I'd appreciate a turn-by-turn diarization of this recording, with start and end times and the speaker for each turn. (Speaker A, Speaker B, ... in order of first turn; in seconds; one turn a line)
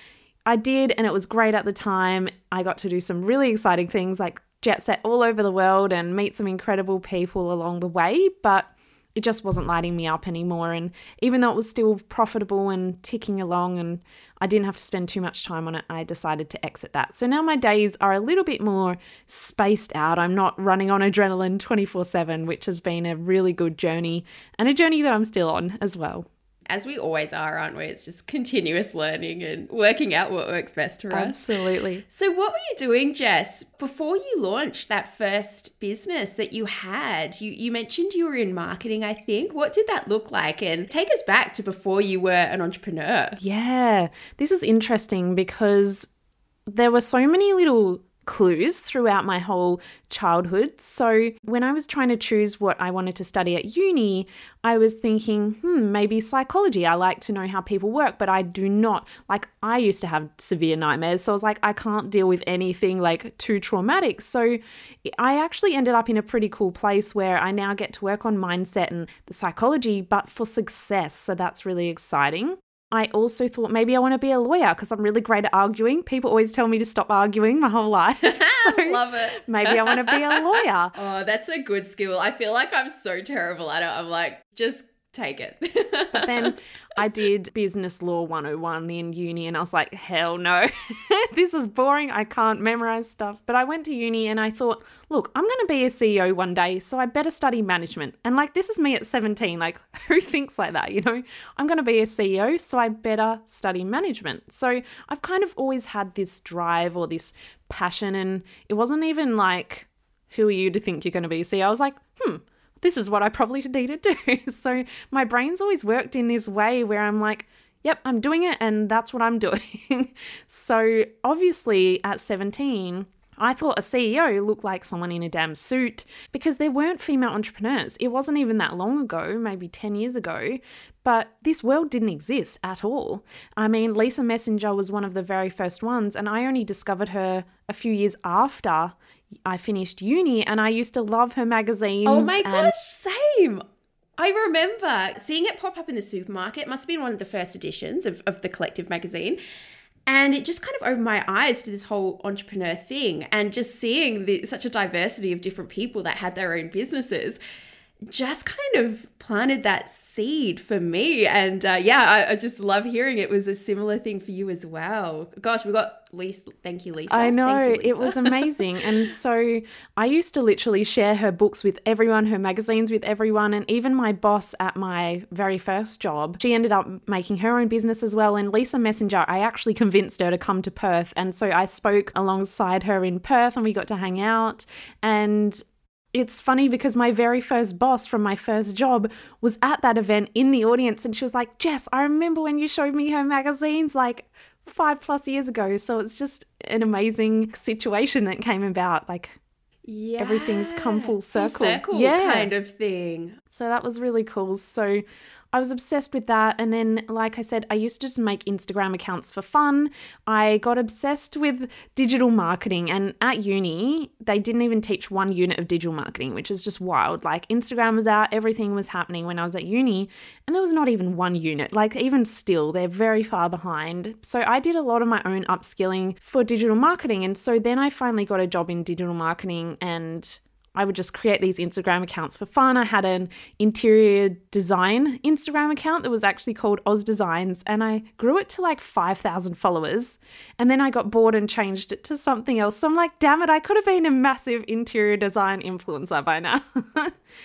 Speaker A: 0.5-26.3
Speaker B: 26.7-31.4
Speaker A: 31.1-32.0
Speaker B: 32.1-43.4
Speaker A: 43.4-46.1
Speaker A: 46.7-80.9
Speaker B: 78.2-86.5
Speaker A: 86.1-142.7
Speaker B: 142.1-143.6
Speaker B: 144.2-149.4
Speaker B: 150.1-157.4
Speaker B: 158.1-168.8
Speaker A: 167.1-185.6
Speaker A: 186.1-199.4
Speaker B: 199.8-203.4
Speaker A: 200.2-202.5
Speaker A: 203.5-247.1